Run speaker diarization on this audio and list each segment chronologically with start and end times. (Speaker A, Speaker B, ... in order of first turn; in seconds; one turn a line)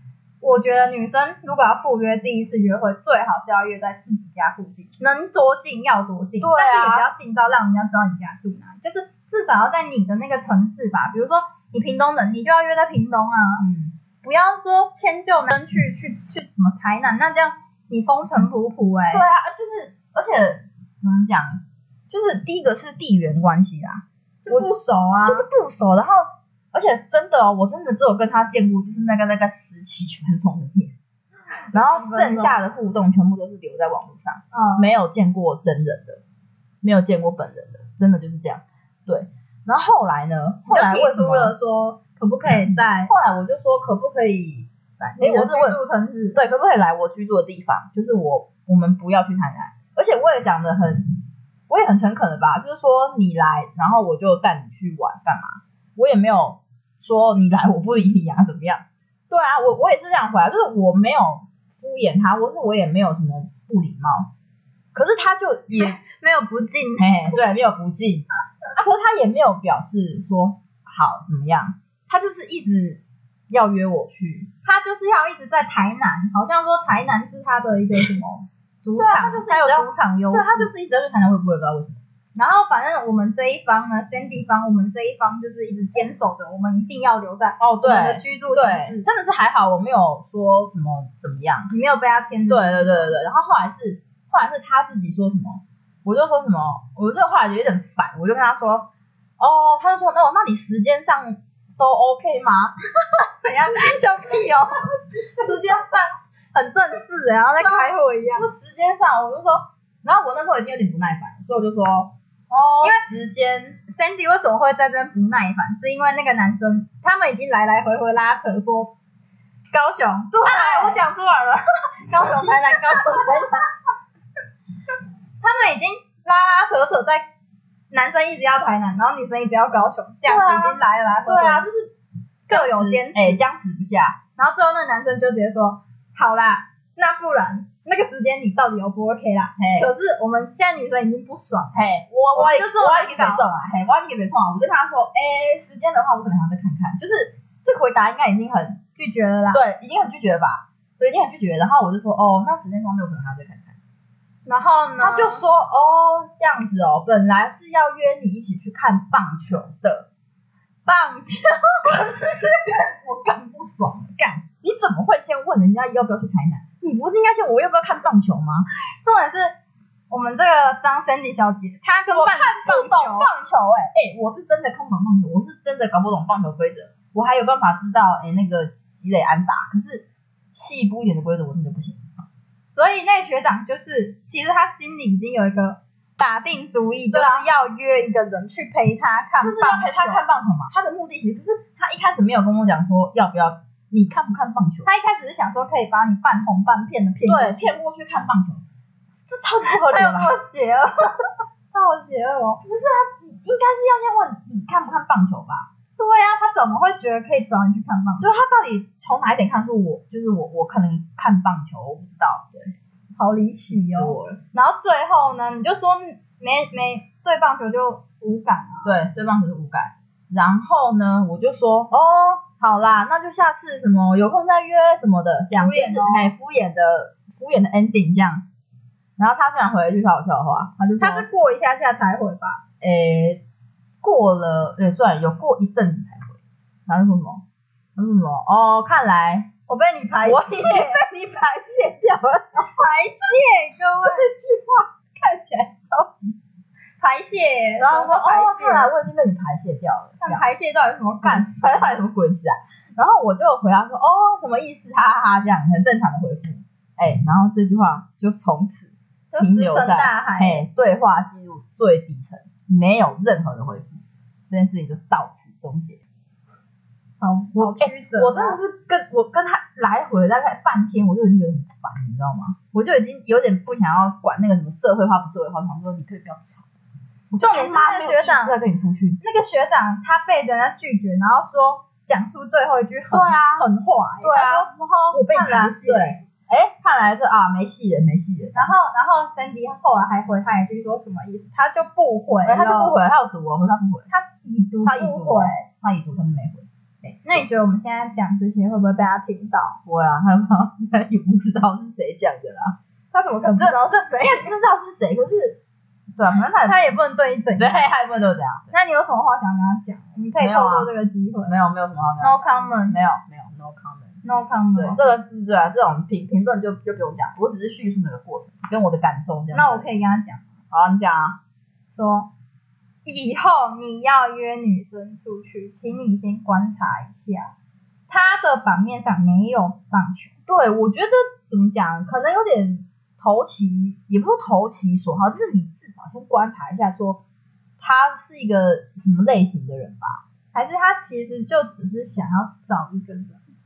Speaker A: 0.4-13.7
Speaker B: 6.4-7.1
Speaker B: 13.6-14.0
Speaker A: 14.2-19.2
Speaker B: 19.1-24.7
Speaker A: 24.5-25.4
Speaker B: 25.3-30.9
Speaker A: 31.6-32.6
Speaker B: 31.7-36.2
Speaker A: 34.5-34.9
Speaker B: 36.8-41.5
Speaker A: 40.7-43.1
Speaker B: 42.5-45.8
Speaker A: 45.2-46.4
Speaker B: 46.4-51.2
Speaker B: 51.7-64.3
Speaker B: 64.9-66.0
Speaker A: 65.8-67.4
Speaker B: 67.0-68.3
Speaker B: 68.8-74.5
Speaker A: 74.6-80.7
Speaker B: 79.0-82.0
Speaker A: 82.3-89.0
Speaker B: 87.6-91.7
Speaker A: 91.7-93.2
Speaker B: 92.5-98.9
Speaker B: 99.4-102.7
Speaker A: 103.1-108.5
Speaker B: 105.2-106.1
Speaker B: 107.6-113.8
Speaker A: 113.9-118.9
Speaker A: 119.7-121.0
Speaker B: 120.3-123.3
Speaker A: 122.1-123.7
Speaker A: 125.4-127.3
Speaker A: 127.9-131.7
Speaker B: 130.2-131.9
Speaker A: 132.5-133.4
Speaker B: 132.5-134.2
Speaker A: 134.4-141.8
Speaker B: 139.6-139.9
Speaker B: 141.7-148.8
Speaker A: 142.3-143.4
Speaker A: 149.0-149.6
Speaker B: 149.5-153.8
Speaker A: 154.5-155.4
Speaker B: 155.0-160.1
Speaker A: 160.9-162.2
Speaker B: 161.9-168.7
Speaker A: 169.0-169.6
Speaker A: 170.1-173.3
Speaker B: 172.1-182.1
Speaker A: 182.7-190.2
Speaker B: 187.1-187.5
Speaker B: 189.4-194.9
Speaker A: 194.8-197.7
Speaker B: 197.3-198.6
Speaker B: 199.2-200.4
Speaker A: 199.6-202.6
Speaker B: 202.6-205.7
Speaker A: 206.0-208.3
Speaker B: 208.2-212.7
Speaker A: 213.2-218.9
Speaker B: 213.7-214.4
Speaker B: 218.8-228.4
Speaker A: 225.6-226.3
Speaker B: 229.2-231.3
Speaker A: 231.0-232.6
Speaker B: 232.8-233.4
Speaker B: 234.0-237.4
Speaker B: 238.0-239.5
Speaker A: 239.7-241.0
Speaker B: 240.2-242.7
Speaker A: 242.6-244.3
Speaker B: 244.0-246.4
Speaker A: 247.0-248.9
Speaker B: 247.8-250.4
Speaker A: 250.2-251.8
Speaker B: 251.2-266.0
Speaker A: 259.3-260.6
Speaker A: 267.2-268.6
Speaker B: 267.6-276.7
Speaker B: 277.3-279.2
Speaker A: 277.4-278.6
Speaker A: 279.2-286.2
Speaker B: 283.1-283.7
Speaker B: 284.2-288.7
Speaker A: 288.5-293.0
Speaker B: 292.4-294.1
Speaker A: 294.1-295.6
Speaker B: 294.9-297.4
Speaker A: 297.2-299.8
Speaker B: 299.9-302.8
Speaker A: 303.1-304.5
Speaker B: 303.6-305.6
Speaker B: 306.2-306.8
Speaker A: 306.6-307.9
Speaker B: 307.6-308.7
Speaker A: 308.7-311.5
Speaker B: 310.4-310.9
Speaker B: 311.5-314.1
Speaker A: 312.2-313.0
Speaker A: 314.2-315.0
Speaker B: 314.8-319.9
Speaker A: 319.5-320.5
Speaker B: 320.7-321.4
Speaker A: 321.9-322.3
Speaker A: 323.1-327.5
Speaker A: 328.1-330.3
Speaker B: 330.5-337.2
Speaker B: 337.8-340.2
Speaker A: 340.5-343.4